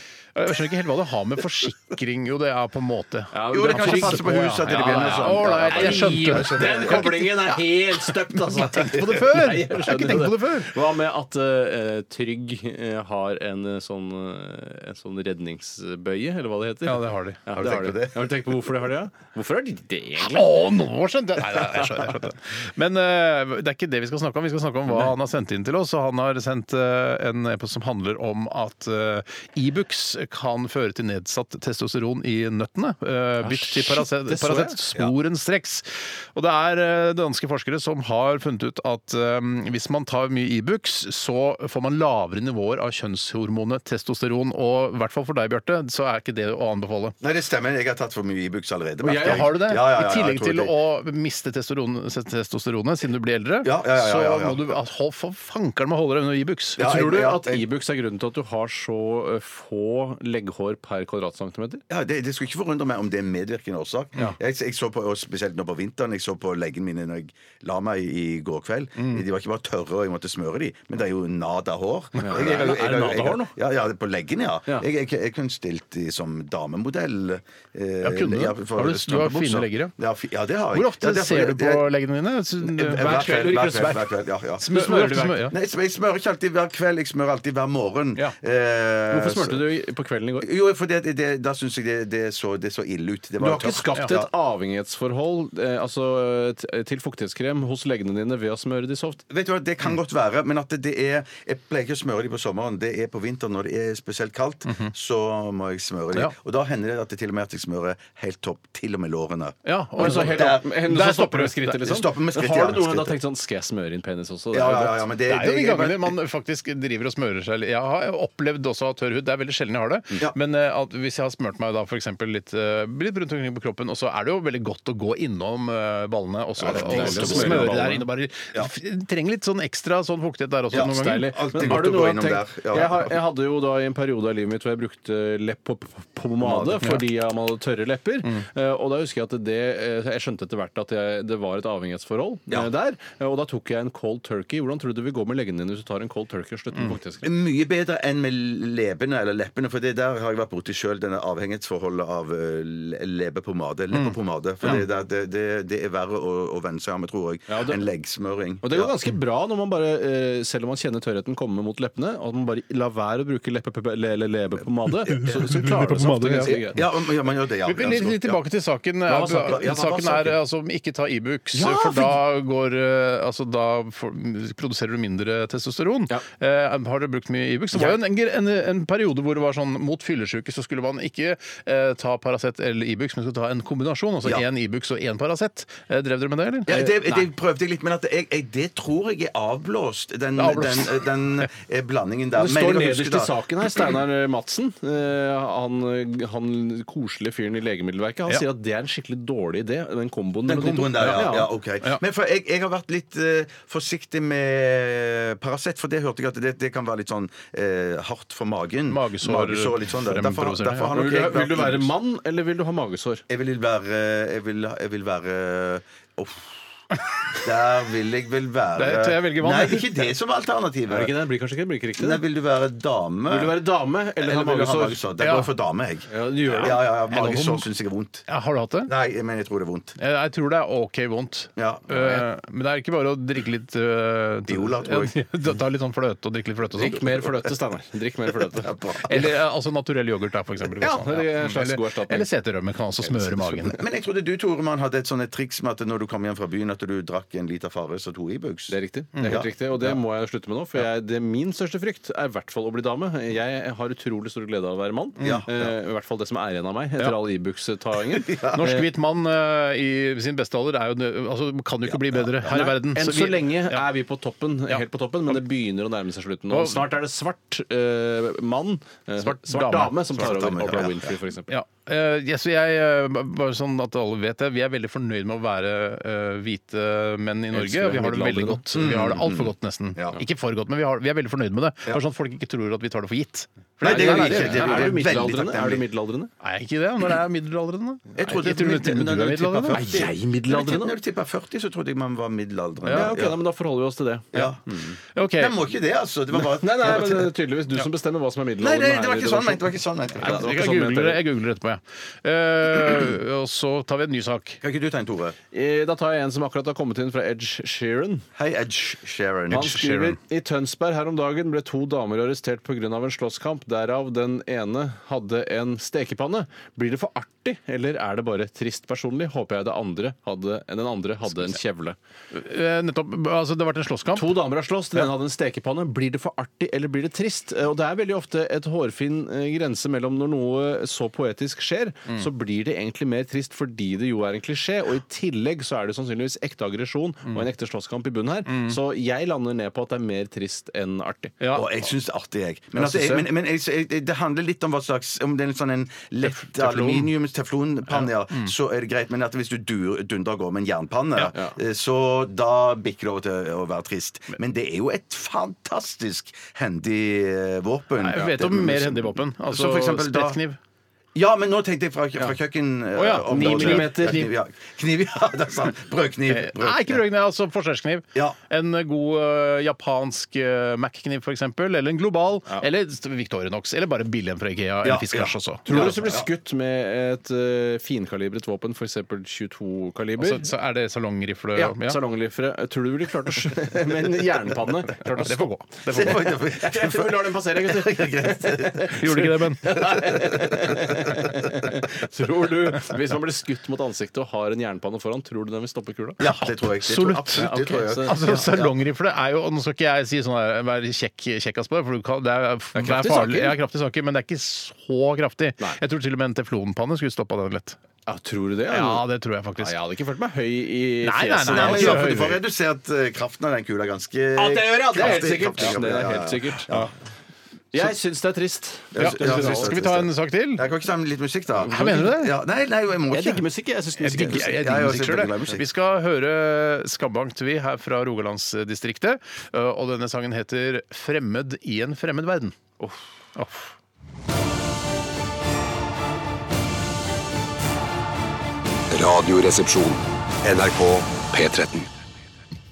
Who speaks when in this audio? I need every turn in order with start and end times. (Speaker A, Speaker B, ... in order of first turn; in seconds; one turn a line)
Speaker A: 0.4-7.3
Speaker B: 3.3-20.6
Speaker C: 3.5-7.3
Speaker A: 8.6-10.7
Speaker C: 8.7-9.2
Speaker A: 16.9-17.4
Speaker C: 17.6-18.3
Speaker A: 20.2-47.1
Speaker B: 21.6-21.9
Speaker B: 33.4-34.8
Speaker C: 47.2-50.7
Speaker B: 49.0-49.6
Speaker A: 49.1-56.9
Speaker C: 53.6-54.7
Speaker C: 56.8-57.6
Speaker B: 56.8-61.8
Speaker C: 61.9-81.9
Speaker B: 72.2-73.5
Speaker A: 78.0-79.9
Speaker A: 80.7-83.4
Speaker C: 82.6-84.7
Speaker B: 82.9-84.1
Speaker A: 84.6-85.5
Speaker B: 84.7-85.5
Speaker C: 85.5-89.6
Speaker B: 89.1-90.5
Speaker C: 90.4-94.3
Speaker B: 93.4-99.2
Speaker C: 99.3-110.9
Speaker A: 109.7-111.8
Speaker B: 110.0-115.1
Speaker C: 111.8-113.2
Speaker C: 114.5-116.1
Speaker A: 115.3-131.8
Speaker C: 126.6-128.0
Speaker B: 126.6-128.0
Speaker C: 130.7-133.2
Speaker B: 130.8-147.3
Speaker C: 136.4-136.9
Speaker C: 147.2-158.9
Speaker A: 153.9-154.8
Speaker B: 157.5-157.8
Speaker B: 158.6-166.8
Speaker C: 165.1-165.5
Speaker A: 165.1-166.6
Speaker C: 166.4-168.4
Speaker A: 167.7-187.2
Speaker C: 169.1-170.4
Speaker C: 171.5-172.2
Speaker C: 186.7-193.3
Speaker A: 190.4-191.1
Speaker B: 192.4-201.5
Speaker C: 200.5-211.9
Speaker A: 208.9-211.0
Speaker B: 210.9-213.2
Speaker C: 213.3-216.6
Speaker C: 217.3-221.1
Speaker A: 218.8-219.9
Speaker B: 220.9-222.2
Speaker C: 222.0-223.6
Speaker B: 223.3-225.0
Speaker C: 224.2-228.2
Speaker A: 225.2-225.5
Speaker B: 226.1-226.8
Speaker A: 226.6-227.7
Speaker A: 228.3-228.9
Speaker C: 228.9-230.0
Speaker A: 230.0-237.1
Speaker C: 231.6-232.3
Speaker C: 234.5-235.2
Speaker B: 236.8-238.7
Speaker C: 238.5-239.3
Speaker A: 239.1-243.8
Speaker B: 240.8-242.3
Speaker C: 243.4-248.8
Speaker B: 248.7-258.8
Speaker A: 249.2-249.4
Speaker C: 249.3-250.0
Speaker C: 255.2-255.7
Speaker C: 258.2-258.8
Speaker A: 258.5-263.8
Speaker C: 261.9-262.5
Speaker B: 262.5-271.5
Speaker A: 266.5-266.9
Speaker A: 269.2-270.2
Speaker C: 270.2-271.1
Speaker A: 271.5-285.0
Speaker B: 277.5-279.1
Speaker C: 278.8-280.2
Speaker C: 283.8-285.9
Speaker B: 283.8-286.3
Speaker A: 286.4-289.8
Speaker C: 288.1-293.4
Speaker B: 289.7-290.9
Speaker B: 292.9-294.9
Speaker C: 294.3-297.3
Speaker A: 295.1-295.6
Speaker B: 296.4-301.2
Speaker C: 298.6-300.5
Speaker A: 300.2-304.6
Speaker C: 304.6-305.4
Speaker B: 305.5-308.3
Speaker C: 308.4-309.8
Speaker B: 309.5-322.0
Speaker A: 309.5-310.2
Speaker A: 322.3-324.3
Speaker B: 324.1-341.4
Speaker A: 338.5-338.8
Speaker A: 341.4-341.7
Speaker C: 341.5-360.4
Speaker B: 342.8-343.3
Speaker A: 346.2-347.1
Speaker A: 347.9-348.5
Speaker B: 351.3-351.6
Speaker A: 358.0-360.6
Speaker C: 361.1-367.0
Speaker A: 362.9-364.3
Speaker B: 363.3-364.3
Speaker A: 366.3-376.0
Speaker C: 374.8-376.3
Speaker B: 375.7-380.5
Speaker A: 380.2-382.0
Speaker B: 381.6-385.4
Speaker A: 385.0-386.2
Speaker C: 385.9-391.5
Speaker B: 385.9-396.2
Speaker A: 389.0-389.6
Speaker C: 396.2-398.7
Speaker A: 396.3-397.5
Speaker B: 397.4-398.5
Speaker A: 398.0-407.8
Speaker B: 402.8-403.6
Speaker B: 408.1-409.1
Speaker A: 408.7-409.7
Speaker B: 409.6-412.1
Speaker A: 411.0-412.4
Speaker C: 411.4-416.9
Speaker B: 414.4-416.7
Speaker B: 417.7-419.7
Speaker C: 418.9-423.4
Speaker A: 419.0-420.7
Speaker B: 421.6-422.0
Speaker A: 421.7-422.3
Speaker B: 423.1-424.6
Speaker A: 424.0-432.6
Speaker C: 424.1-425.7
Speaker A: 433.4-433.7
Speaker D: 438.9-441.9